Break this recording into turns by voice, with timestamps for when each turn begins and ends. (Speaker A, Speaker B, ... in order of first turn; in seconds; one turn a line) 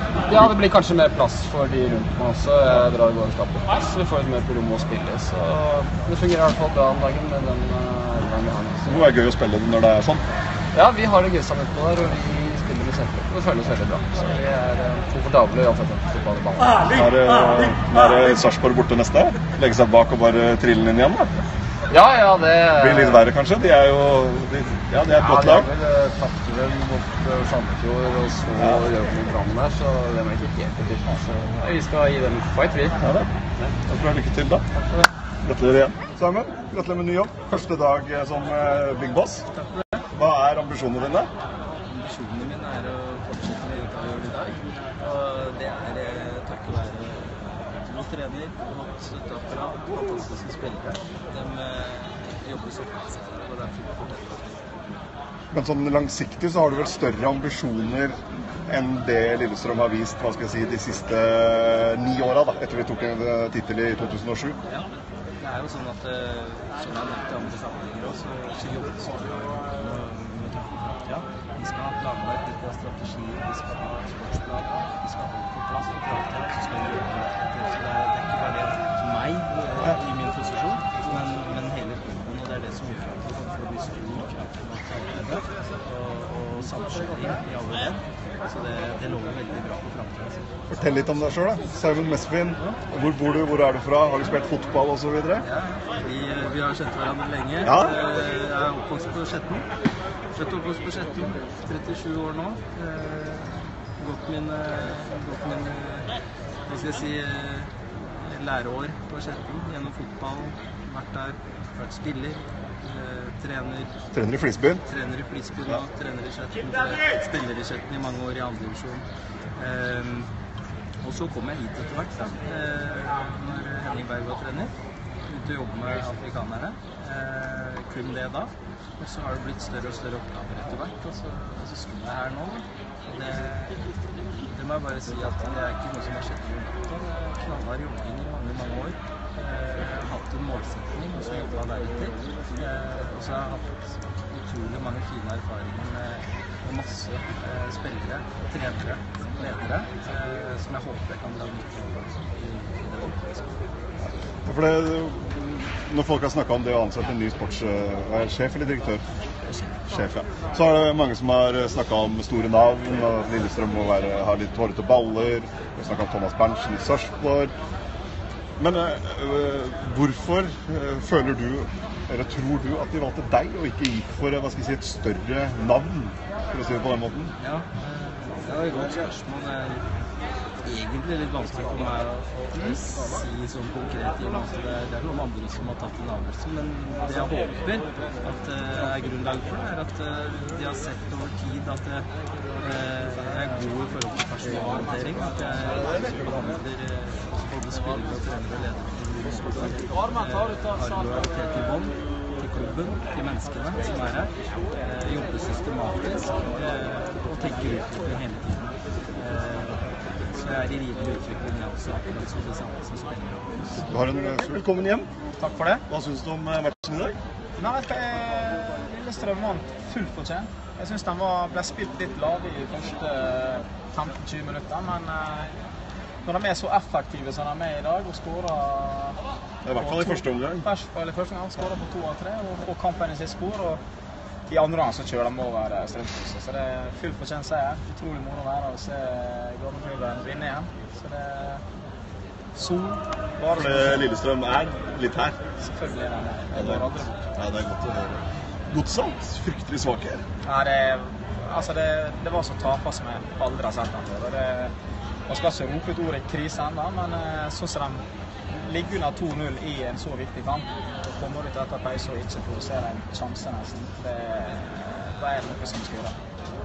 Speaker A: 0.2-9.1
Speaker B: 8.8-10.2
Speaker A: 10.7-16.9
Speaker B: 16.9-21.3
Speaker A: 21.9-23.2
Speaker B: 22.8-25.7
Speaker A: 25.2-33.0
Speaker B: 33.0-33.3
Speaker B: 33.9-34.6
Speaker B: 35.4-39.5
Speaker C: 39.6-39.8
Speaker B: 40.1-41.3
Speaker C: 41.9-54.7
Speaker B: 55.5-64.6
Speaker C: 65.4-90.5
Speaker B: 90.7-95.4
Speaker C: 95.4-99.7
Speaker B: 97.6-98.0
Speaker C: 100.3-106.1
Speaker C: 106.6-114.0
Speaker B: 114.1-114.8
Speaker C: 114.8-120.3
Speaker C: 121.0-124.7
Speaker C: 125.2-133.8
Speaker C: 134.4-153.7
Speaker B: 154.4-159.0
Speaker B: 159.8-167.5
Speaker B: 168.6-177.3
Speaker C: 177.4-179.9
Speaker C: 180.6-213.9
Speaker B: 213.8-215.1
Speaker D: 215.4-215.8
Speaker B: 215.9-217.2
Speaker D: 217.6-225.6
Speaker D: 226.2-229.2
Speaker B: 229.6-230.7
Speaker D: 229.8-233.8
Speaker D: 234.5-241.6
Speaker D: 242.5-244.1
Speaker B: 243.5-245.4
Speaker D: 245.6-247.3
Speaker B: 246.5-250.2
Speaker D: 250.4-254.7
Speaker D: 255.3-266.2